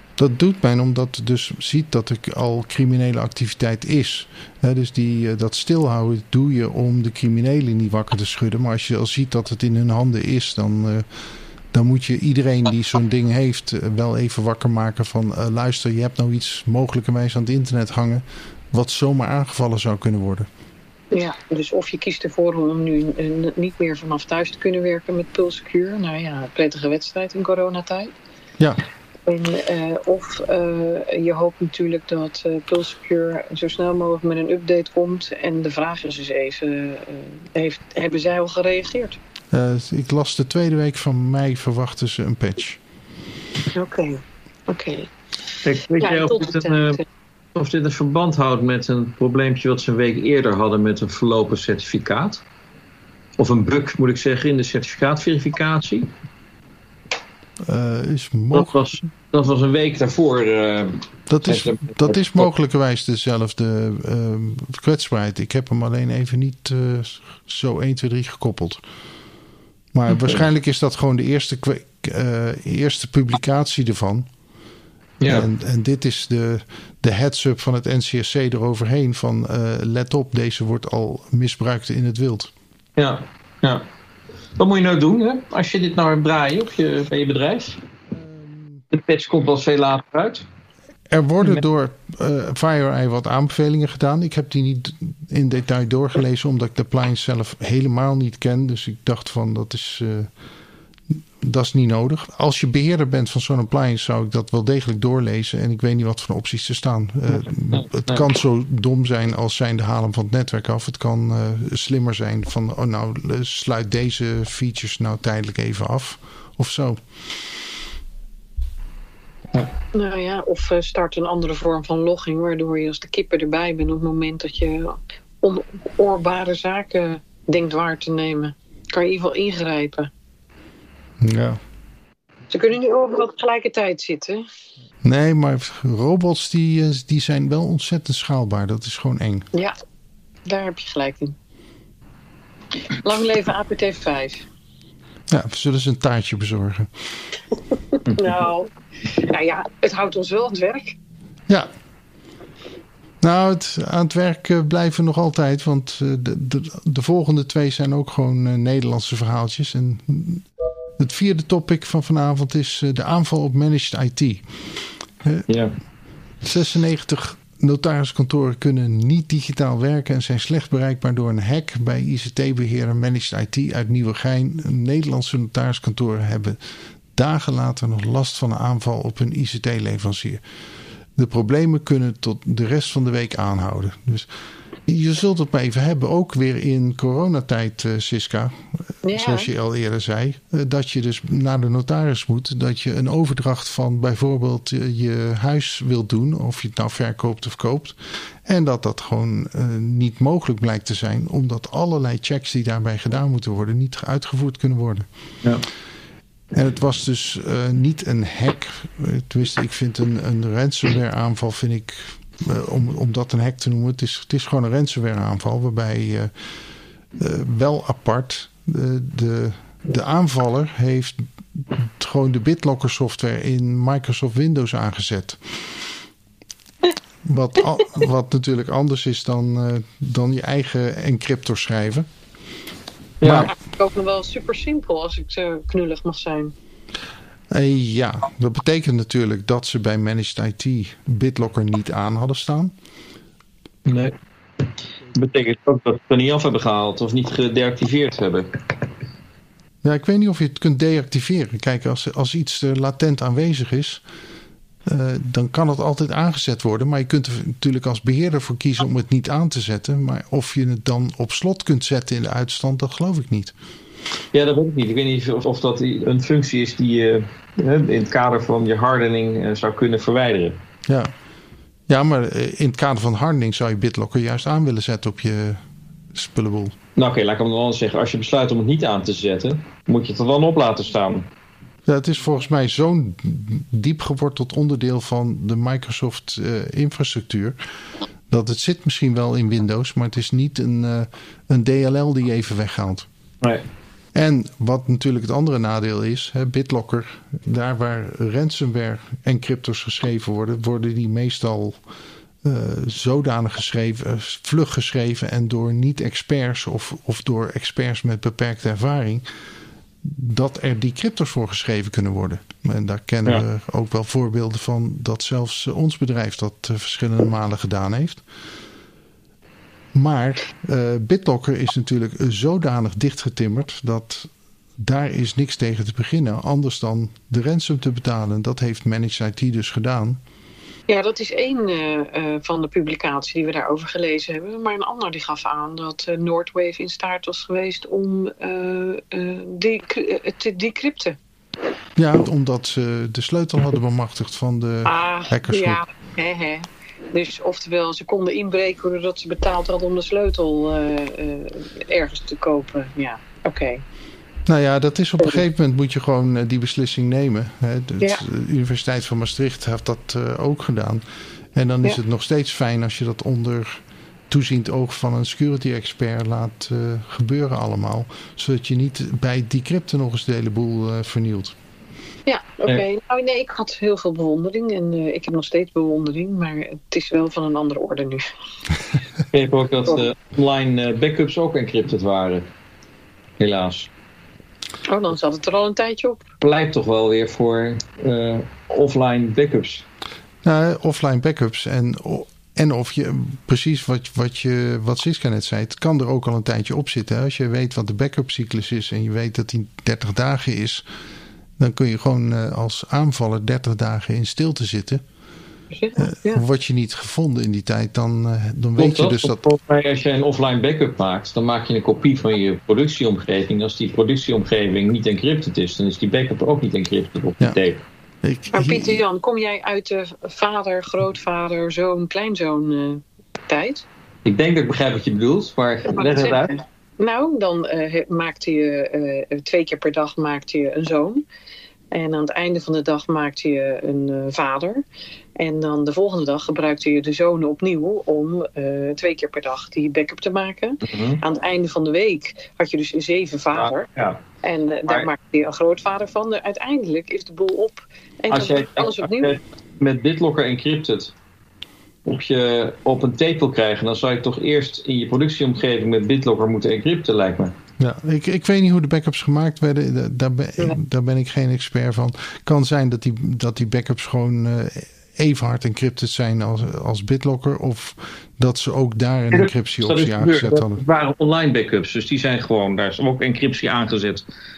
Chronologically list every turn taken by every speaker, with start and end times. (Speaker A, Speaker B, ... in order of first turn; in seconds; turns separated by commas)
Speaker A: 0.2-11.1, Speaker A: 11.7-20.5, Speaker B: 21.1-28.1, Speaker B: 29.3-39.2, Speaker A: 39.5-42.8, Speaker B: 43.7-45.1, Speaker C: 45.6-47.0, Speaker B: 46.0-47.0, Speaker C: 47.5-52.4, Speaker C: 53.4-56.1, Speaker A: 57.6-59.0, Speaker C: 58.5-62.5, Speaker A: 61.3-68.8, Speaker A: 69.9-74.3, Speaker C: 75.2-75.5, Speaker A: 75.3-82.5, Speaker C: 83.0-83.8, Speaker C: 84.6-87.8, Speaker A: 88.3-88.8, Speaker C: 88.9-90.5, Speaker A: 91.1-100.3, Speaker A: 101.4-117.0, Speaker C: 107.7-108.3, Speaker B: 119.9-130.1, Speaker A: 131.2-131.6, Speaker B: 132.5-134.4, Speaker A: 135.0-139.5, Speaker B: 140.4-141.4, Speaker B: 142.9-144.4, Speaker A: 145.3-146.9, Speaker C: 148.1-148.4, Speaker B: 148.2-151.0, Speaker A: 153.2-160.5, Speaker A: 161.0-164.4, Speaker C: 165.5-165.8, Speaker A: 166.4-176.6, Speaker A: 177.2-180.4, Speaker A: 181.2-184.3, Speaker A: 184.9-205.1, Speaker B: 189.1-189.5, Speaker A: 206.5-216.3, Speaker A: 217.2-221.2, Speaker A: 221.8-225.4, Speaker A: 227.2-232.1, Speaker C: 233.2-233.5, Speaker A: 233.2-233.5, Speaker B: 233.4-236.5, Speaker A: 237.5-242.7, Speaker C: 243.9-244.2, Speaker C: 245.1-248.5, Speaker A: 249.8-254.0, Speaker A: 254.9-263.6, Speaker C: 264.3-270.6, Speaker A: 270.9-271.1, Speaker A: 271.9-275.6, Speaker A: 276.1-276.8, Speaker C: 277.0-281.3, Speaker A: 281.9-287.6, Speaker A: 288.3-293.1, Speaker A: 294.1-301.8, Speaker A: 302.4-309.2, Speaker A: 310.0-318.2, Speaker A: 319.9-330.2, Speaker B: 330.9-341.2, Speaker A: 342.0-345.8, Speaker B: 344.9-353.9, Speaker A: 354.5-361.0, Speaker A: 361.6-371.6, Speaker B: 372.3-378.3, Speaker C: 379.3-382.5, Speaker C: 383.4-383.9, Speaker B: 384.9-386.2, Speaker C: 386.4-389.9, Speaker A: 390.4-400.8, Speaker A: 401.6-405.0, Speaker B: 405.7-406.4, Speaker A: 406.0-409.4, Speaker C: 408.8-417.8, Speaker A: 418.2-419.0, Speaker B: 418.5-423.9, Speaker C: 424.2-426.6, Speaker B: 425.9-431.2, Speaker B: 431.9-434.8, Speaker B: 435.4-443.9, Speaker C: 440.8-441.2, Speaker C: 443.5-444.2, Speaker B: 444.4-449.4, Speaker C: 448.3-451.1, Speaker C: 452.1-457.6, Speaker A: 457.8-470.8, Speaker C: 469.3-474.3